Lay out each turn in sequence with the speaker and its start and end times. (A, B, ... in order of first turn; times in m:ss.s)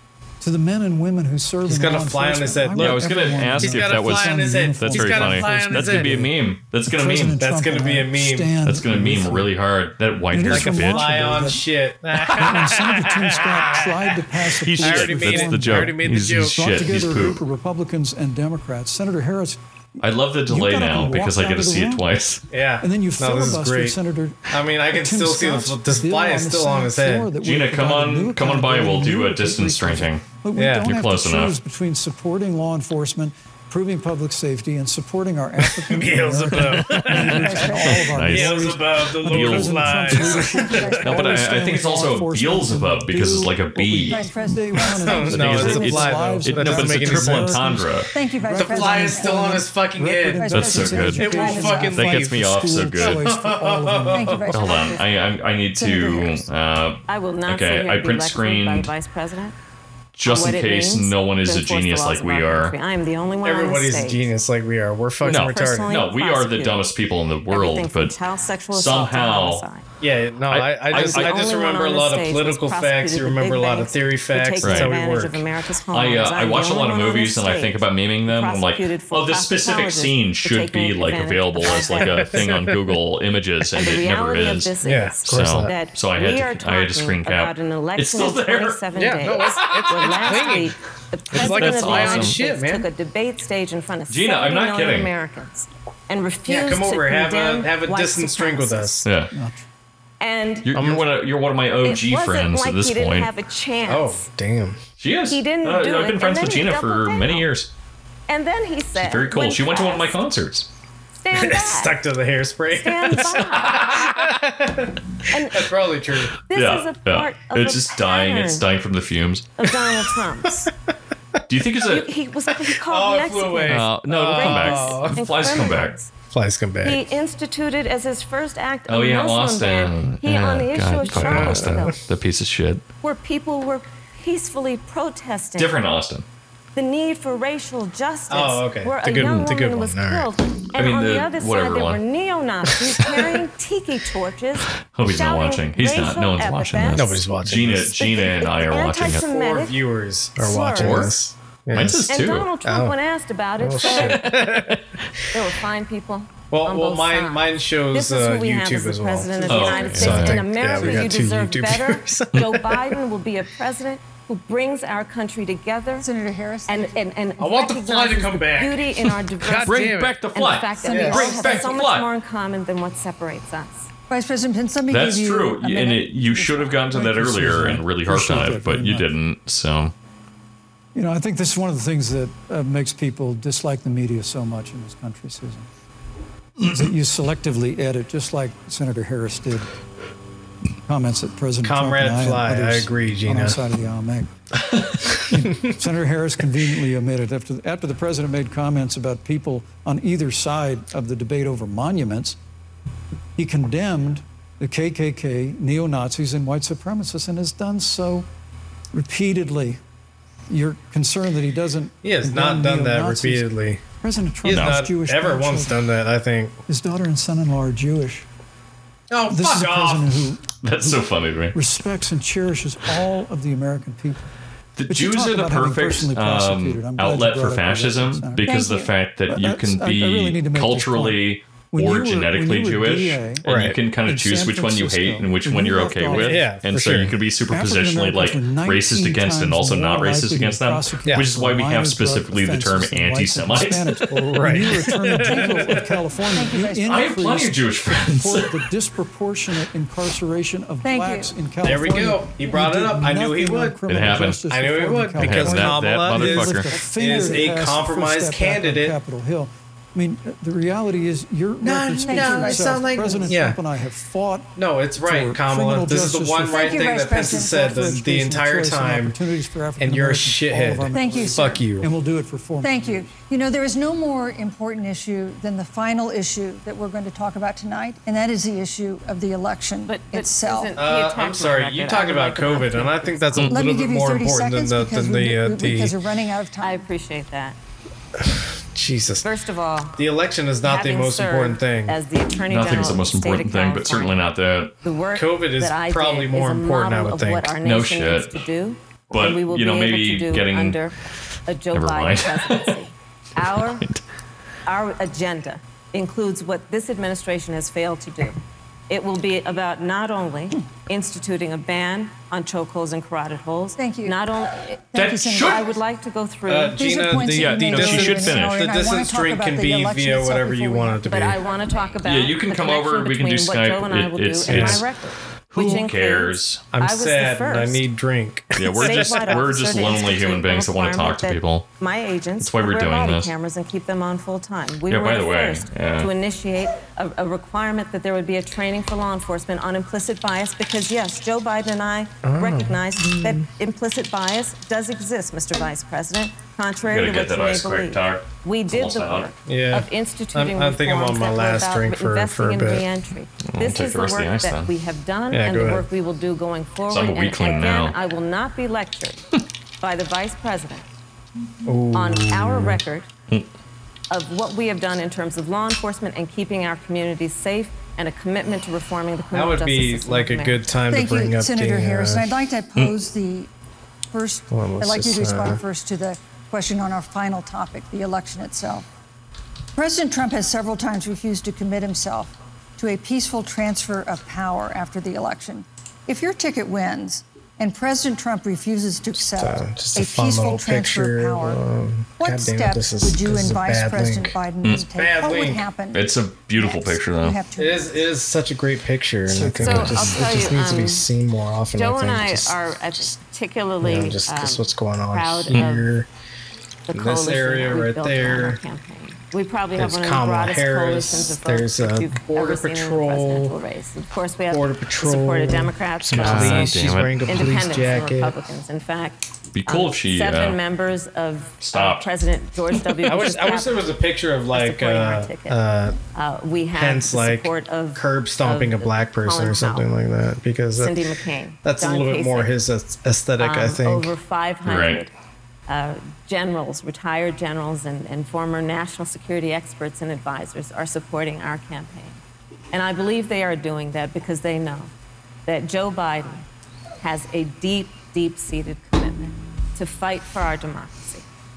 0:00.4-0:09.5 A
0:01.7-0:06.2 B
0:02.8-0:07.4 C
0:07.4-0:08.6 B
0:08.6-0:11.3 C
0:10.3-0:11.7 A
0:10.5-0:14.0 B
0:12.2-0:22.0 A
0:14.6-0:17.4 C
0:14.8-0:16.8 B
0:20.0-0:22.4 C
0:22.5-0:24.0 B
0:22.8-0:54.5 A
0:24.5-0:27.3 B
0:27.4-0:30.3 C
0:30.6-0:30.9 B
0:30.8-0:31.6 C
0:35.8-0:37.5 B
0:36.9-0:37.2 C
0:37.1-0:38.1 D
0:37.8-0:40.4 C
0:38.2-0:41.2 B
0:40.4-0:41.5 D
0:41.0-0:44.2 C
0:44.1-0:45.4 D
0:45.0-0:47.6 B
0:45.3-0:48.1 C
0:48.1-0:49.7 D
0:48.5-0:54.5 B
0:50.4-0:52.0 D
0:50.5-0:53.2 C
0:54.1-0:55.0 D
0:54.5-0:58.9 C
0:54.6-0:55.0 E
0:55.7-0:56.5 D
0:57.1-0:59.6 E
1:00.2-1:02.7 C
1:00.2-1:04.3 E
1:03.4-1:06.0 B
1:05.2-1:08.2 C
1:05.3-1:06.8 E
1:07.5-1:09.8 E
1:08.7-1:09.6 C
1:10.0-1:15.4 B
1:10.5-1:11.4 C
1:10.9-1:22.5 E
1:14.6-1:14.9 C
1:15.9-1:24.7 C
1:21.8-1:22.9 B
1:23.7-1:39.0 E
1:24.8-1:25.7 B
1:25.2-1:28.8 C
1:28.9-1:30.7 B
1:31.3-1:32.4 C
1:31.3-1:32.8 B
1:34.1-1:35.1 C
1:36.5-1:39.0 B
1:39.0-1:39.3 C
1:39.3-1:39.6 A
1:40.2-1:40.9 E
1:40.6-1:43.3 C
1:40.7-1:41.1 B
1:41.8-1:44.2 E
1:43.8-1:44.8 B
1:45.0-1:47.7 C
1:45.3-1:47.5 E
1:48.3-1:50.2 E
1:49.0-1:50.7 C
1:51.2-1:52.0 E
1:51.3-1:54.9 B
1:52.7-1:54.0 E
1:53.1-1:54.2 C
1:55.3-1:55.7 E
1:55.5-1:56.3 B
1:56.5-1:58.6 E
1:56.5-1:59.5 C
1:59.6-2:00.7 E
2:01.5-2:02.0 C
2:01.9-2:06.1 E
2:02.7-2:05.2 B
2:03.7-2:05.9 C
2:06.3-2:07.0 B
2:06.8-2:12.0 E
2:08.9-2:12.8 C
2:11.0-2:12.0 B
2:13.0-2:15.8 E
2:15.6-2:16.2 C
2:16.7-2:29.8 E
2:18.3-2:20.3 B
2:19.1-2:19.4 C
2:20.8-2:22.0 C
2:24.8-2:29.3 C
2:26.9-2:28.0 B
2:29.0-2:32.9 B
2:30.4-2:31.1 E
2:30.7-2:31.1 C
2:31.7-2:32.5 C
2:32.1-2:34.3 E
2:33.6-2:34.8 B
2:33.8-2:34.7 C
2:35.3-2:46.1 E
2:36.5-2:43.0 B
2:39.5-2:40.4 C
2:40.8-2:41.1 A
2:46.0-2:46.9 D
2:46.7-2:53.9 E
2:47.4-2:50.2 B
2:49.5-2:52.1 C
2:50.8-2:51.8 D
2:50.9-2:51.3 B
2:54.1-2:57.1 D
2:54.9-2:59.9 C
2:56.9-2:59.1 A
3:00.9-3:05.7 A
3:06.6-3:09.7 A
3:10.9-3:14.3 A
3:11.6-3:13.6 B
3:15.3-3:22.4 A
3:23.4-3:28.3 A
3:28.9-3:29.8 A
3:30.5-3:35.8 A
3:32.0-3:33.8 B
3:34.4-3:36.6 B
3:34.5-3:34.8 C
3:36.7-3:38.2 A
3:39.1-3:40.2 B
3:39.2-3:41.0 A
3:40.6-3:41.6 C
3:41.5-3:44.3 A
3:44.8-4:04.3 C
3:44.9-3:56.6 A
3:53.4-3:53.8 B
3:56.1-3:57.1 B
3:57.4-4:33.1 A
4:04.3-4:05.8 B
4:05.2-4:07.1 D
4:06.9-4:08.6 C
4:10.8-4:11.3 D
4:11.6-4:13.8 B
4:13.9-4:14.4 C
4:14.4-4:19.0 B
4:15.2-4:16.7 C
4:21.6-4:23.6 B
4:22.0-4:23.1 D
4:24.6-4:29.2 B
4:26.5-4:28.0 D
4:29.8-4:31.9 B
4:30.9-4:31.6 D
4:32.6-4:40.7 D
4:39.9-4:43.4 E
4:40.8-4:45.9 B
4:43.5-4:46.9 D
4:46.6-4:47.6 E
4:48.7-4:49.2 B
4:49.2-4:50.0 E
4:50.0-4:52.0 B
4:50.6-4:54.2 E
4:52.5-4:54.7 C
4:54.8-5:01.0 E
4:55.1-4:57.5 B
4:57.6-4:58.4 C
4:59.1-5:00.8 C
5:01.5-5:03.8 E
5:01.7-5:02.7 C
5:04.6-5:08.4 E
5:08.9-5:16.9 E
5:13.8-5:14.2 D
5:14.9-5:15.6 D
5:14.9-5:15.7 C
5:16.5-5:21.4 B
5:16.7-5:21.0 D
5:17.1-5:18.6 C
5:21.1-5:27.8 E
5:22.0-5:24.9 C
5:24.5-5:24.8 B
5:25.5-5:26.6 C
5:26.7-5:29.4 B
5:28.6-5:31.7 C
5:28.7-5:59.3 E
5:32.4-5:33.3 C
5:34.9-5:36.1 C
5:42.2-5:43.4 B
5:46.9-5:49.3 C
5:49.5-5:52.8 B
5:53.4-5:54.7 C
5:55.3-5:55.9 B
5:56.9-5:57.9 C
5:59.8-6:00.8 E
6:01.6-6:02.8 B
6:01.9-6:03.1 E
6:04.1-6:10.6 E
6:09.3-6:12.3 B
6:10.9-6:13.5 D
6:14.1-6:18.8 D
6:14.5-6:15.6 B
6:19.8-6:31.6 D
6:29.4-6:35.7 B
6:32.2-6:38.1 D
6:35.9-6:37.4 C
6:37.6-6:42.6 B
6:39.3-6:40.1 A
6:39.6-6:41.0 E
6:41.7-6:45.9 E
6:43.8-6:46.1 B
6:46.9-7:03.9 E
6:46.9-6:48.6 B
6:49.8-6:53.5 B
6:54.5-6:58.3 B
6:56.1-6:57.6 C
6:59.5-7:00.6 C
7:01.6-7:02.0 C
7:03.0-7:06.0 B
7:04.5-7:05.6 E
7:06.1-7:09.9 E
7:06.7-7:11.0 B
7:10.8-7:12.5 E
7:11.6-7:14.1 B
7:13.4-7:15.1 E
7:14.6-7:15.0 C
7:15.7-7:22.2 E
7:22.7-7:24.9 E
7:25.4-7:26.4 E
7:27.0-7:31.2 E